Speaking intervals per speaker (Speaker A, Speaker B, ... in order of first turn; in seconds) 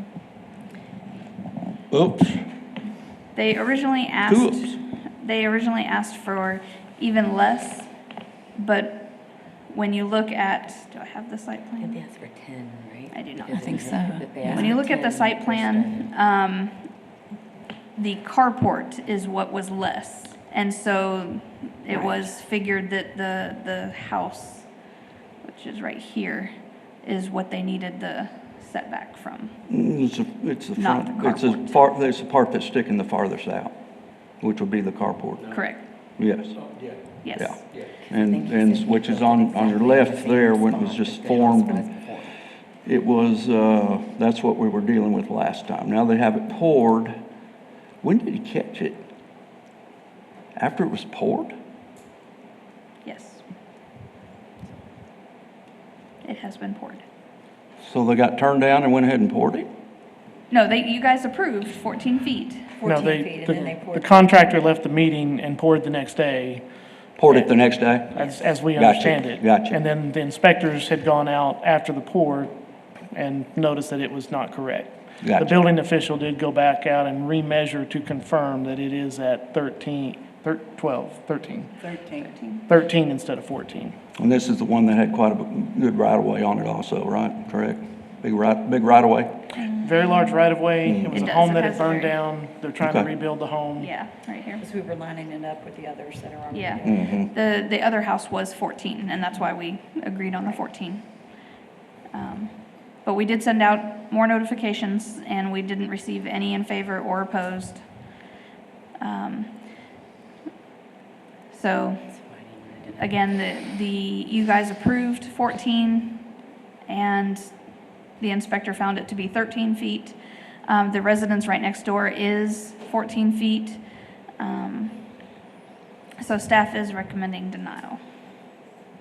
Speaker A: 1.9-2.5, 4.3-4.7, 29.7-33.8, 34.3-35.6, 36.2-41.9, 42.9-47.2, 48.0-49.1, 50.5-51.5, 57.8-59.7, 67.2-69.8, 75.2-75.6, 84.2-89.4, 90.8-91.2, 92.8-93.1, 96.8-97.3
Speaker B: 3.4-7.9, 8.5-12.0, 13.1-17.0, 18.0-24.7, 25.4-29.6, 30.8-31.9, 35.5-35.8, 37.2-37.6, 53.0-53.4, 56.2-57.0, 60.5-63.1, 82.2-82.6, 89.5-90.4, 91.1-92.2, 93.8-94.6, 96.5-101.2, 102.1-108.2, 109.0-109.8, 111.5-112.1, 113.0-116.3, 116.9-123.8, 124.4-125.2, 126.2-128.0
Speaker C: 11.8-16.1, 21.9-22.3, 38.0-42.4, 112.1-113.1
Speaker D: 13.6-14.8, 62.9-64.3, 81.8-82.4, 94.6-97.2
Speaker E: 62.8-66.7, 68.1-72.5, 73.1-81.9, 82.7-84.0, 89.8-93.9